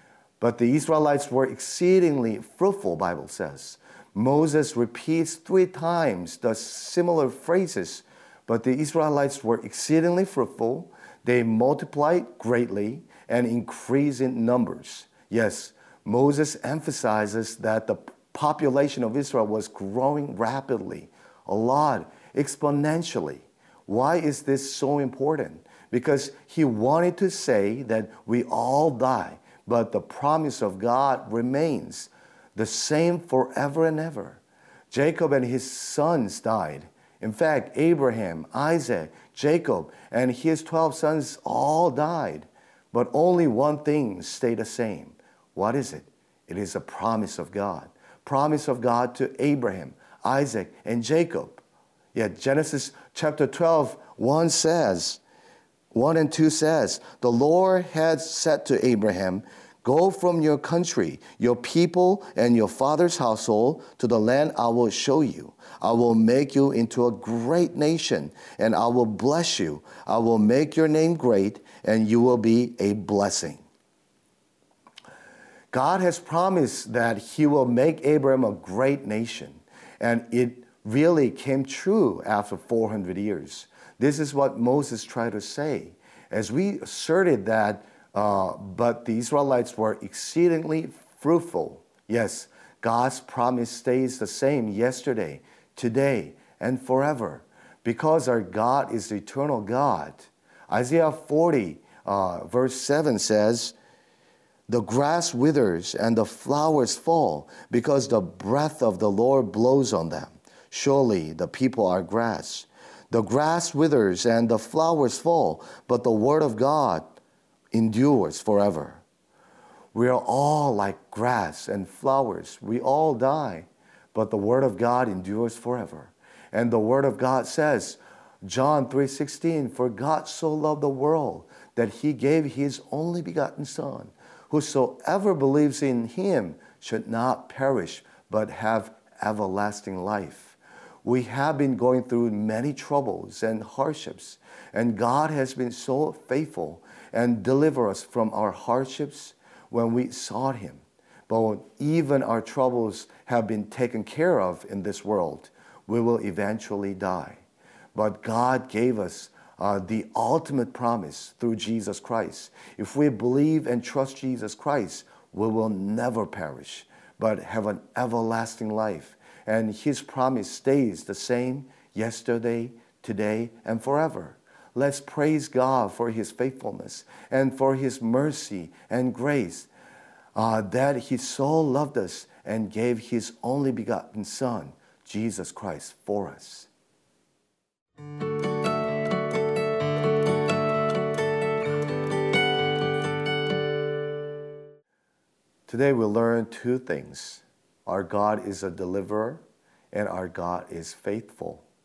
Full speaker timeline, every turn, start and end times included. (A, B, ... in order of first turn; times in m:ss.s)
0:00.4-0:51.6 A
0:52.1-0:55.2 A
0:55.9-1:13.6 A
1:15.7-1:43.8 A
1:44.7-1:57.1 A
1:57.7-1:59.0 A
1:59.9-2:37.4 A
2:38.0-2:59.7 A
3:00.4-3:06.7 A
3:15.7-3:21.6 A